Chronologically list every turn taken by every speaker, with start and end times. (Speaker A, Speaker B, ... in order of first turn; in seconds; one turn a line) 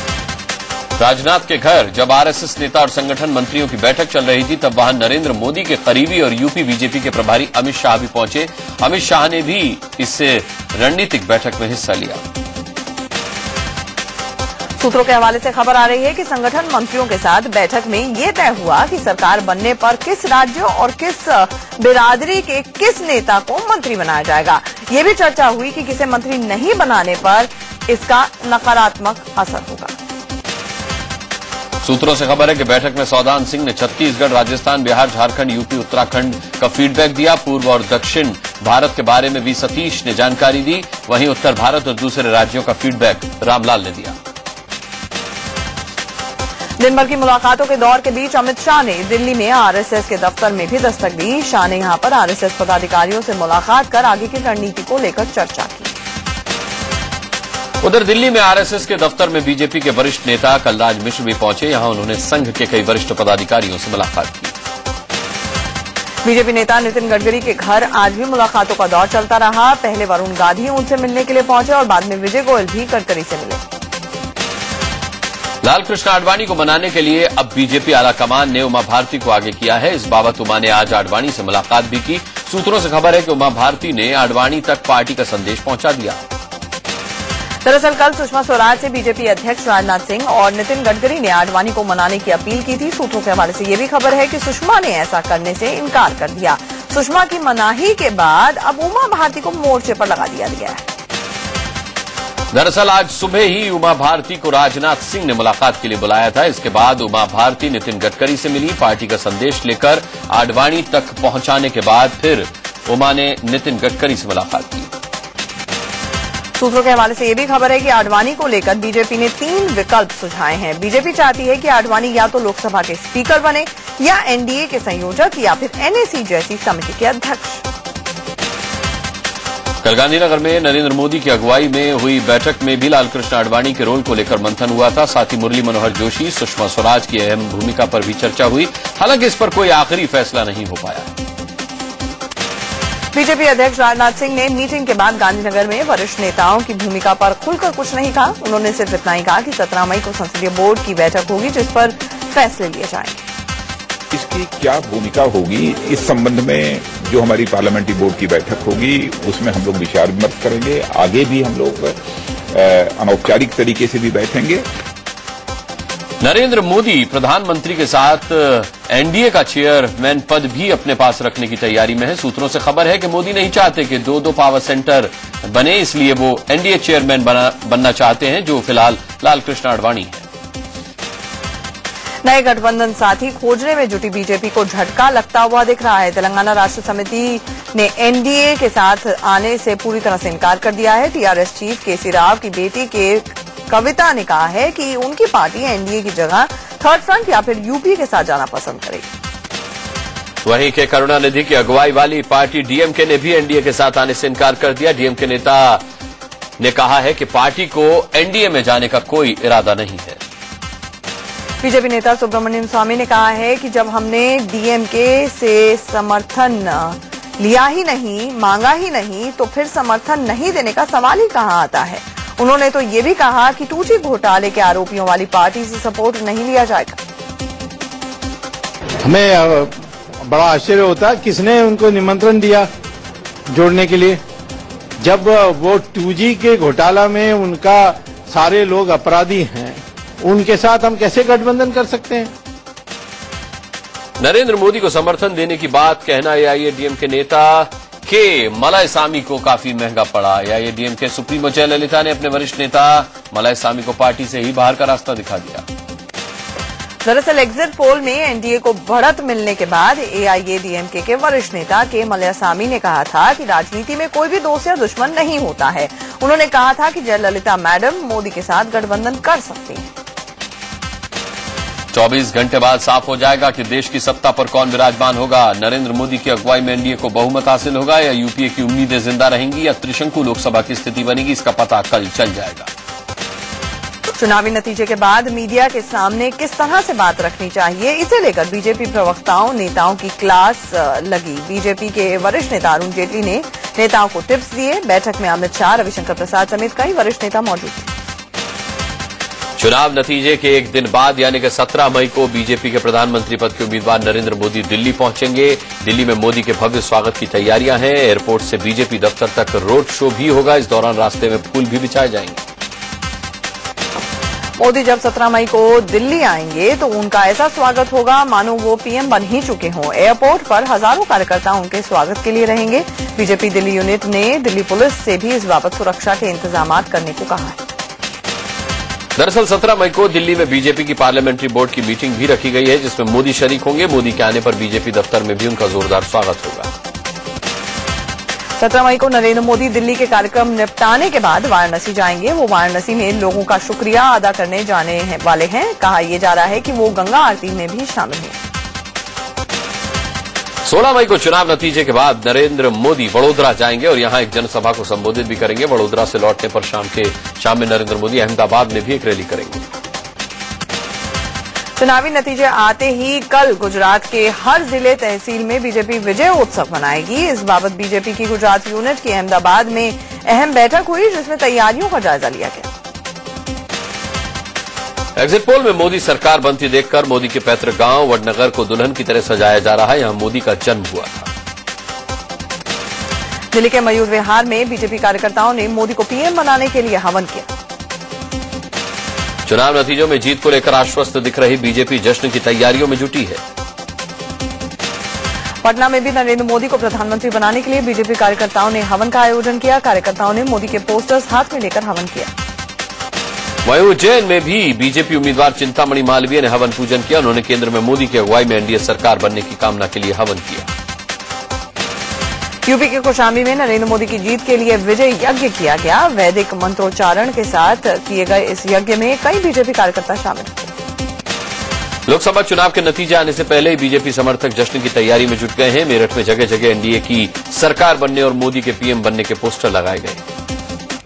Speaker A: 1.0-12.2
Speaker B: 14.8-29.9
Speaker A: 31.8-44.2
Speaker B: 46.8-55.9
Speaker A: 57.8-64.5
Speaker B: 66.2-73.6
Speaker A: 75.6-86.2
Speaker B: 87.6-100.8
Speaker A: 102.5-114.9
Speaker B: 116.5-127.6
Speaker A: 129.8-141.1
Speaker B: 143.1-153.2
Speaker C: 154.1-161.9
Speaker C: 162.5-164.6
Speaker A: 166.2-180.2
Speaker B: 182.2-199.1
Speaker A: 200.4-205.8
Speaker A: 206.6-210.2
Speaker B: 211.6-227.0
Speaker D: 229.0-229.7
Speaker D: 230.2-232.7
Speaker D: 233.5-234.2
Speaker D: 235.0-242.3
Speaker A: 244.2-255.6
Speaker B: 257.0-269.9
Speaker A: 271.9-282.7
Speaker B: 284.2-297.9
Speaker A: 299.6-312.4
Speaker B: 314.6-327.6
Speaker A: 329.2-336.7
Speaker B: 338.6-348.4
Speaker A: 350.6-359.6
Speaker B: 361.8-372.6
Speaker A: 375.2-381.3
Speaker B: 383.5-387.5
Speaker A: 389.5-393.4
Speaker B: 395.6-402.3
Speaker A: 403.6-410.7
Speaker B: 412.7-420.7
Speaker A: 422.1-430.2